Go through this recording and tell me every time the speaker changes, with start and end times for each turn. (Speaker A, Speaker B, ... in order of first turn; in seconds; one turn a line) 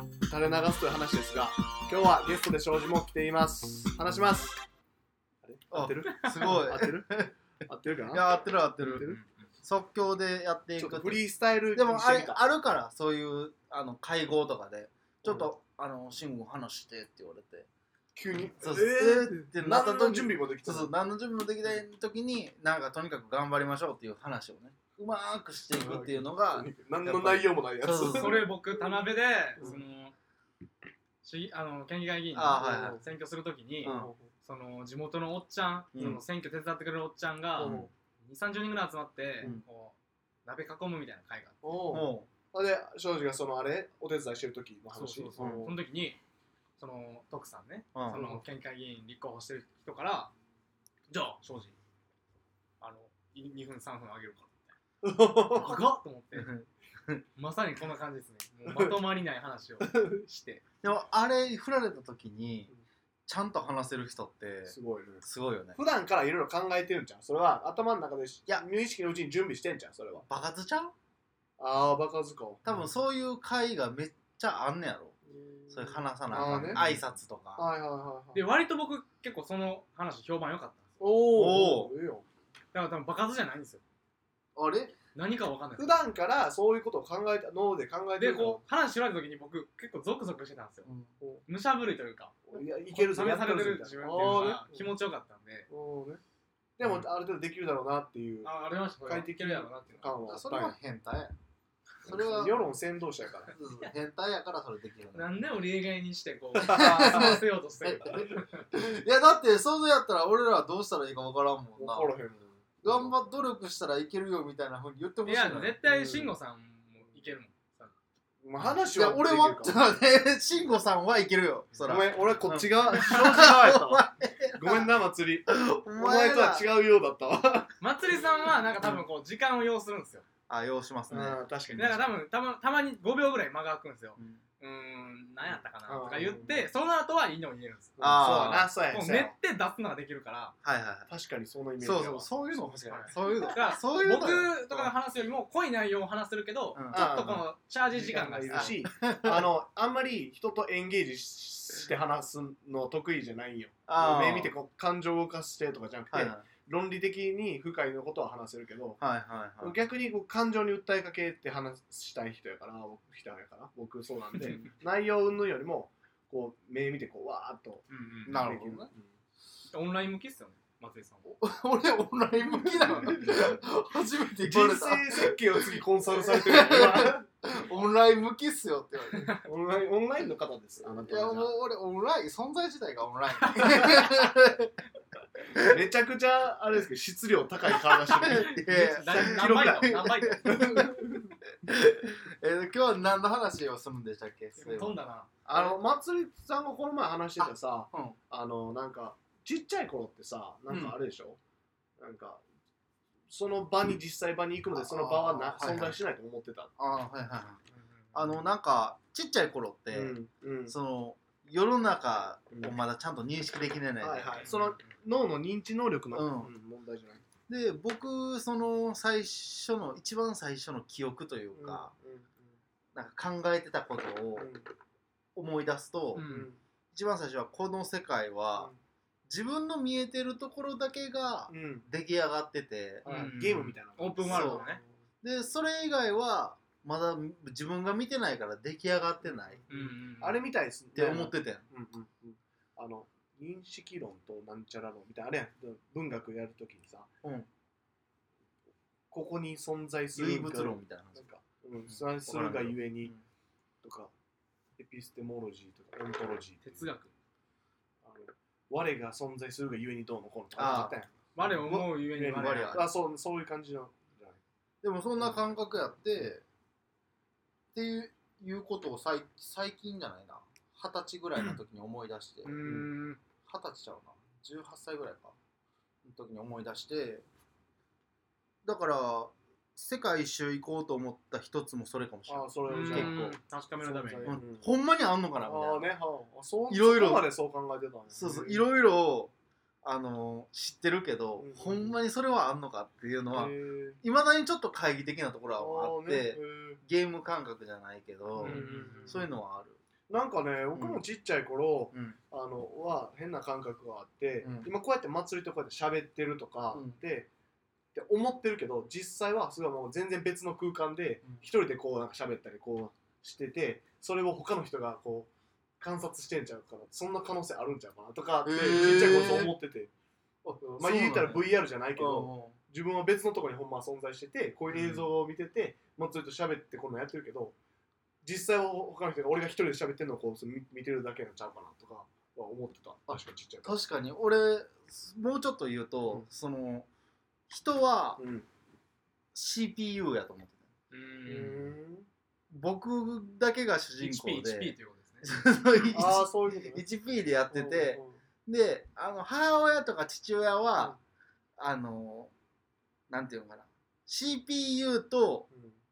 Speaker A: 0.3-4.6
Speaker A: 5.4-8.4
Speaker B: 5.7-7.4
Speaker C: 6.2-6.6
Speaker B: 8.1-17.7
Speaker C: 8.8-9.5
Speaker A: 10.8-12.4
Speaker A: 15.2-15.5
Speaker A: 18.1-20.9
Speaker B: 18.6-28.5
Speaker A: 25.7-28.5
Speaker C: 28.1-30.1
Speaker C: 31.2-41.6
Speaker B: 32.3-33.0
Speaker A: 32.6-33.0
Speaker A: 33.8-34.3
Speaker B: 33.8-34.1
Speaker B: 35.9-36.2
Speaker A: 37.5-37.9
Speaker B: 37.6-37.9
Speaker A: 41.6-45.8
Speaker B: 41.9-42.3
Speaker C: 44.9-46.2
Speaker B: 45.4-45.7
Speaker C: 46.8-50.3
Speaker B: 47.9-48.4
Speaker C: 51.1-51.8
Speaker C: 52.8-54.7
Speaker A: 55.0-55.8
Speaker C: 55.5-56.5
Speaker B: 56.3-57.2
Speaker C: 57.4-60.6
Speaker A: 58.7-59.0
Speaker A: 59.8-60.2
Speaker B: 60.8-62.7
Speaker B: 63.3-65.8
Speaker A: 64.7-70.3
Speaker B: 70.3-70.9
Speaker A: 71.6-72.9
Speaker B: 72.7-75.2
Speaker A: 75.3-76.9
Speaker B: 75.7-77.7
Speaker C: 76.3-77.0
Speaker A: 77.5-78.4
Speaker C: 78.3-81.0
Speaker A: 81.0-82.3
Speaker B: 81.3-81.9
Speaker C: 82.7-83.8
Speaker B: 84.6-85.0
Speaker C: 85.1-86.0
Speaker A: 85.8-88.6
Speaker C: 88.2-90.9
Speaker B: 90.8-91.1
Speaker C: 91.5-95.7
Speaker A: 92.5-94.9
Speaker A: 95.7-96.2
Speaker A: 96.8-98.5
Speaker C: 98.4-100.1
Speaker A: 99.0-100.8
Speaker B: 100.3-101.3
Speaker B: 102.0-102.7
Speaker A: 102.0-103.5
Speaker B: 103.5-105.4
Speaker C: 105.1-108.7
Speaker A: 106.6-107.4
Speaker B: 106.6-112.1
Speaker A: 111.8-113.2
Speaker B: 112.8-115.8
Speaker C: 115.2-117.9
Speaker A: 115.8-116.3
Speaker A: 118.4-119.8
Speaker B: 118.9-124.9
Speaker A: 121.8-127.7
Speaker B: 125.5-126.7
Speaker C: 127.8-130.3
Speaker B: 130.5-131.4
Speaker A: 131.1-132.2
Speaker C: 131.8-137.9
Speaker B: 134.2-134.4
Speaker A: 135.9-136.7
Speaker A: 138.0-139.3
Speaker B: 138.0-138.7
Speaker C: 138.9-140.6
Speaker B: 140.6-141.1
Speaker A: 141.1-142.8
Speaker B: 141.8-144.9
Speaker C: 142.8-148.8
Speaker B: 146.8-147.1
Speaker A: 146.9-159.0
Speaker B: 148.5-149.5
Speaker B: 153.9-154.5
Speaker B: 156.1-156.5
Speaker B: 159.0-159.8
Speaker A: 159.6-169.1
Speaker C: 167.9-168.4
Speaker B: 168.3-168.9
Speaker C: 169.7-171.2
Speaker B: 171.2-179.3
Speaker C: 172.7-173.3
Speaker A: 174.4-177.3
Speaker C: 179.1-179.4
Speaker A: 179.4-181.6
Speaker B: 181.1-184.8
Speaker A: 183.7-184.1
Speaker B: 185.4-185.8
Speaker A: 185.6-191.3
Speaker B: 187.9-195.8
Speaker C: 188.2-190.9
Speaker C: 194.6-195.3
Speaker A: 195.5-201.4
Speaker B: 197.4-198.2
Speaker B: 200.7-200.9
Speaker A: 202.0-202.4
Speaker A: 203.3-206.7
Speaker B: 204.7-206.0
Speaker B: 206.8-207.6
Speaker C: 207.7-208.4
Speaker B: 208.1-210.2
Speaker A: 209.9-210.8
Speaker B: 210.7-214.5
Speaker A: 212.5-212.8
Speaker A: 214.0-217.2
Speaker C: 214.4-214.9
Speaker B: 216.1-216.5
Speaker B: 217.5-221.9
Speaker A: 221.6-222.4
Speaker B: 222.9-224.5
Speaker A: 224.4-224.7
Speaker B: 225.3-226.2
Speaker C: 226.2-226.5
Speaker A: 226.2-226.6
Speaker B: 226.9-228.7
Speaker B: 229.3-233.4
Speaker A: 231.5-231.9
Speaker C: 233.1-234.8
Speaker A: 233.1-234.9
Speaker B: 234.2-234.7
Speaker B: 235.2-239.6
Speaker A: 239.2-247.1
Speaker C: 239.7-240.4
Speaker B: 240.9-241.7
Speaker A: 249.1-253.1
Speaker B: 250.2-251.2
Speaker B: 251.9-253.2
Speaker A: 253.8-254.1
Speaker A: 254.8-256.9
Speaker C: 256.6-257.1
Speaker A: 258.1-261.4
Speaker B: 260.6-262.9
Speaker C: 261.4-262.8
Speaker A: 262.1-264.4
Speaker B: 264.8-266.4
Speaker A: 265.2-265.5
Speaker B: 267.7-272.6
Speaker A: 271.4-271.6
Speaker A: 272.4-272.9
Speaker C: 272.5-273.2
Speaker B: 273.5-275.4
Speaker B: 276.0-277.2
Speaker B: 278.6-283.4
Speaker A: 282.3-284.7
Speaker C: 282.7-284.4
Speaker B: 284.2-285.9
Speaker A: 285.4-288.7
Speaker B: 286.7-287.3
Speaker B: 288.1-299.8
Speaker A: 291.4-292.0
Speaker A: 293.3-294.0
Speaker A: 295.5-296.8
Speaker C: 298.4-299.2
Speaker A: 298.4-299.3
Speaker A: 300.1-307.3
Speaker B: 300.8-301.0
Speaker B: 301.9-302.2
Speaker B: 304.4-304.7
Speaker B: 306.7-307.0
Speaker A: 307.9-319.9
Speaker B: 318.4-319.5
Speaker B: 320.4-322.6
Speaker A: 320.6-327.6
Speaker B: 324.7-325.1
Speaker A: 328.2-333.8
Speaker B: 333.1-336.9
Speaker B: 337.5-338.2
Speaker A: 338.2-338.5
Speaker B: 339.3-340.6
Speaker C: 340.9-341.7
Speaker A: 341.3-342.1
Speaker B: 342.5-351.0
Speaker C: 344.0-345.4
Speaker A: 345.9-346.9
Speaker A: 347.5-348.2
Speaker B: 351.6-352.3
Speaker B: 353.1-355.5
Speaker A: 355.5-355.8